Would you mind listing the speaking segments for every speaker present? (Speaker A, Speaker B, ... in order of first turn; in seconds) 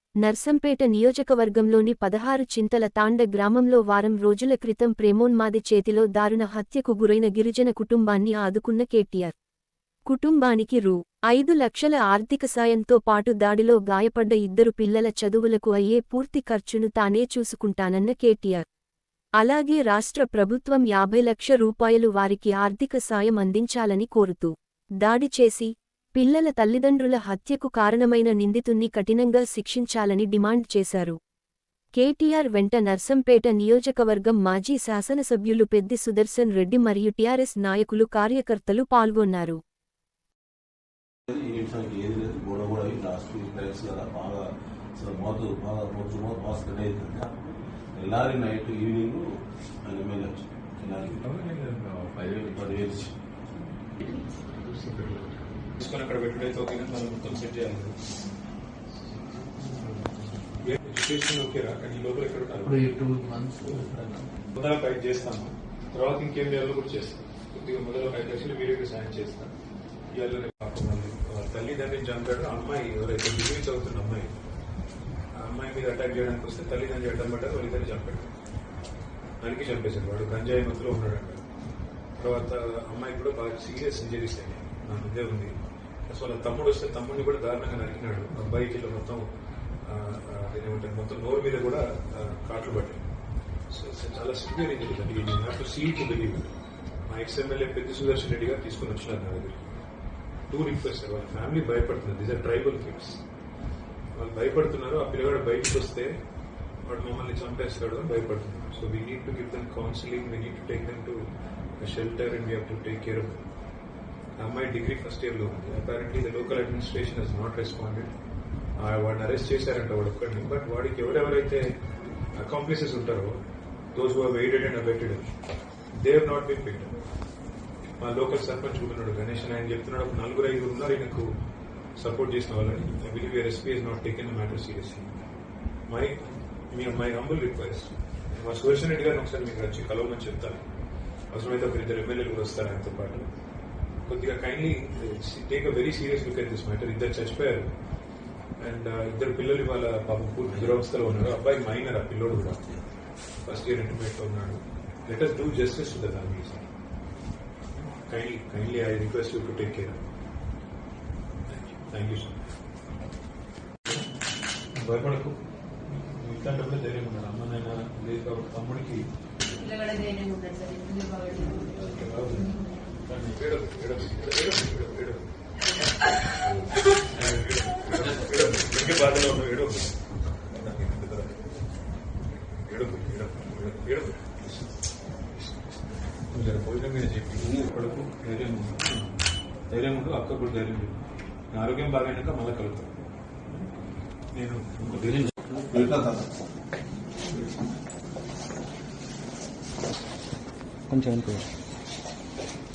Speaker A: 0.2-9.3, 10.1-18.6, 19.4-31.2, 32.0-39.6
Speaker B: 41.3-44.5, 45.0-47.3, 48.0-49.3, 49.8-51.2, 52.3-53.1, 194.9-196.2
Speaker C: 51.3-51.8, 54.6-58.0, 59.6-62.9, 64.5-69.5, 70.1-74.4, 75.4-78.3, 79.4-81.4, 82.2-85.5, 86.1-89.3, 89.8-93.0, 93.7-96.5, 97.1-99.8, 100.5-103.2, 104.2-106.2, 106.8-111.2, 111.8-113.4, 114.4-118.1, 118.8-121.6, 122.3-123.4, 123.9-125.3, 126.0-127.0, 128.0-131.3, 132.0-135.1, 135.9-140.7, 141.3-143.3, 144.1-147.7, 148.6-152.7, 153.4-156.7, 158.1-160.0, 161.5-162.4, 164.8-169.1, 171.8-175.3, 176.4-180.0, 180.6-181.4, 182.7-184.4, 186.3-189.2, 189.7-191.0, 191.5-192.9, 194.3-195.3
Speaker D: 62.6-64.3, 200.9-201.4
Speaker E: 169.5-171.8